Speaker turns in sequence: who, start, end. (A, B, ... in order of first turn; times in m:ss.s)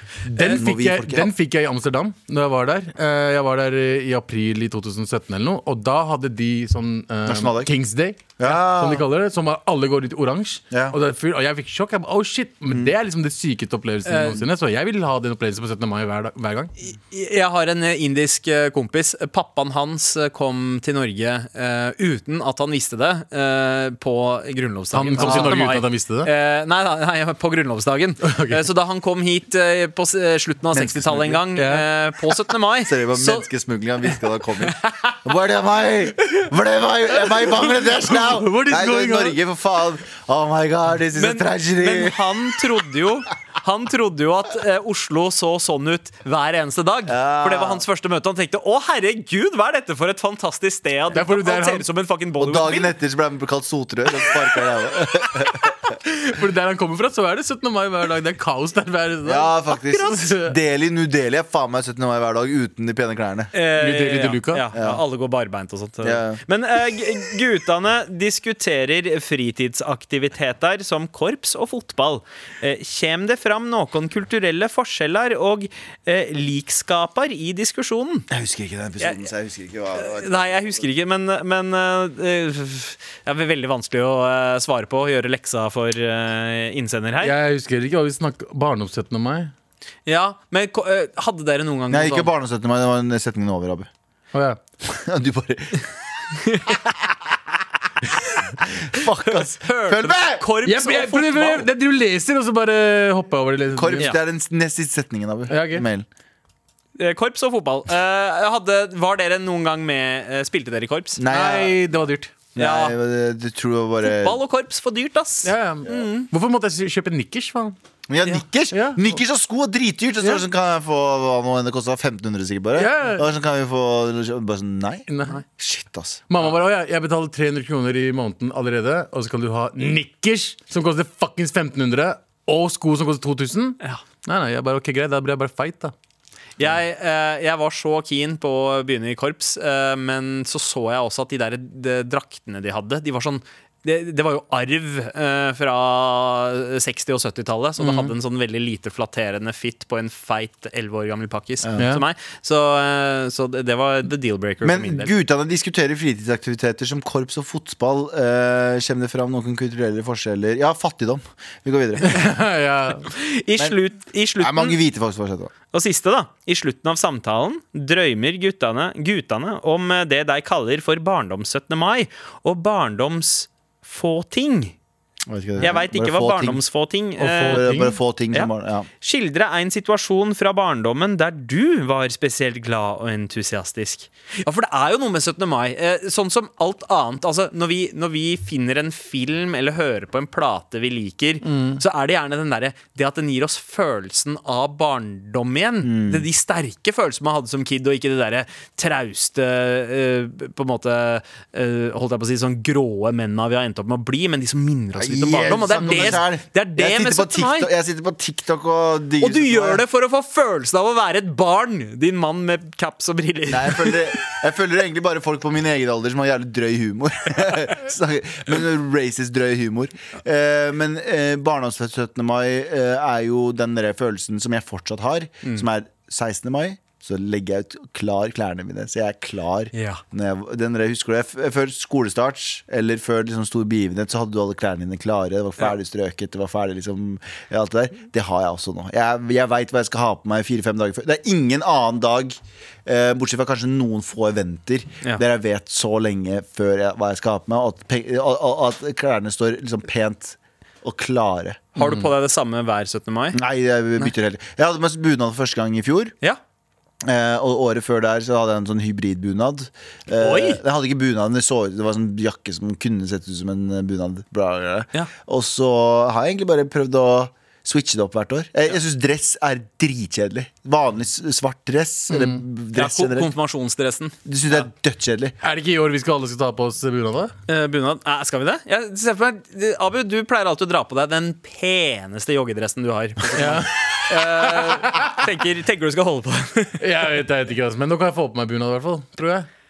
0:00.2-0:01.3 A
0:00.3-0:16.7 B
0:07.2-0:07.7 A
0:08.4-0:09.0 A
0:10.7-0:11.0 A
0:14.1-0:14.4 C
0:16.8-0:33.5 C
0:24.9-0:26.3 B
0:25.1-0:25.6 A
0:28.2-0:28.6 B
0:30.7-0:31.4 A
0:31.6-0:31.9 B
0:32.8-0:42.6 A
0:37.3-0:39.4 B
0:41.2-0:52.9 C
0:47.1-0:47.8 A
0:51.1-0:51.8 B
0:52.4-0:56.0 A
0:56.0-1:00.5 B
0:59.2-1:03.5 A
1:03.5-1:18.3 C
1:03.7-1:04.7 B
1:04.7-1:05.0 A
1:06.0-1:06.4 A
1:18.3-1:20.8 A
1:19.0-1:19.2 C
1:20.0-1:27.3 C
1:27.2-1:29.5 B
1:30.0-1:32.3 C
1:31.9-1:33.9 A
1:34.3-1:34.6 B
1:34.9-1:35.8 A
1:36.4-1:36.8 C
1:38.8-1:40.4 A
1:39.3-1:41.7 C
1:40.6-1:44.1 B
1:43.7-1:46.0 A
1:45.5-1:45.8 B
1:47.0-1:51.2 C
1:51.2-1:51.8 A
1:51.3-1:52.3 B
1:52.5-1:54.4 A
1:52.6-1:52.9 C
1:54.0-1:56.3 C
1:55.4-1:57.8 B
1:58.1-2:06.2 A
1:58.7-1:59.1 B
2:02.8-2:03.2 B
2:05.1-2:05.4 B
2:06.3-2:15.9 B
2:16.6-2:35.1 C
2:27.8-2:28.1 B
2:31.6-2:31.9 A
2:31.8-2:32.0 B
2:34.6-2:42.2 A
2:42.1-2:43.1 B
2:43.1-2:44.8 C
2:44.4-2:45.5 A
2:45.7-2:54.7 C
2:55.2-2:56.6 A
2:55.6-2:57.6 C
2:57.2-2:58.0 B
2:57.5-2:58.9 A
2:58.3-3:27.7 C
3:11.4-3:11.8 B
3:15.8-3:16.3 A
3:25.0-3:29.8 A
3:29.2-3:34.2 C
3:33.5-4:11.8 A
3:49.7-3:50.0 C
4:11.8-4:13.4 C
4:11.8-4:12.1 B
4:13.3-4:16.1 A
4:17.0-4:33.3 A
4:20.2-4:20.6 C
4:32.1-4:32.4 B
4:32.7-4:34.6 C
4:34.2-4:35.3 A
4:35.4-4:37.3 B
4:37.5-4:46.8 C
4:43.3-4:45.2 B
4:46.8-4:49.5 B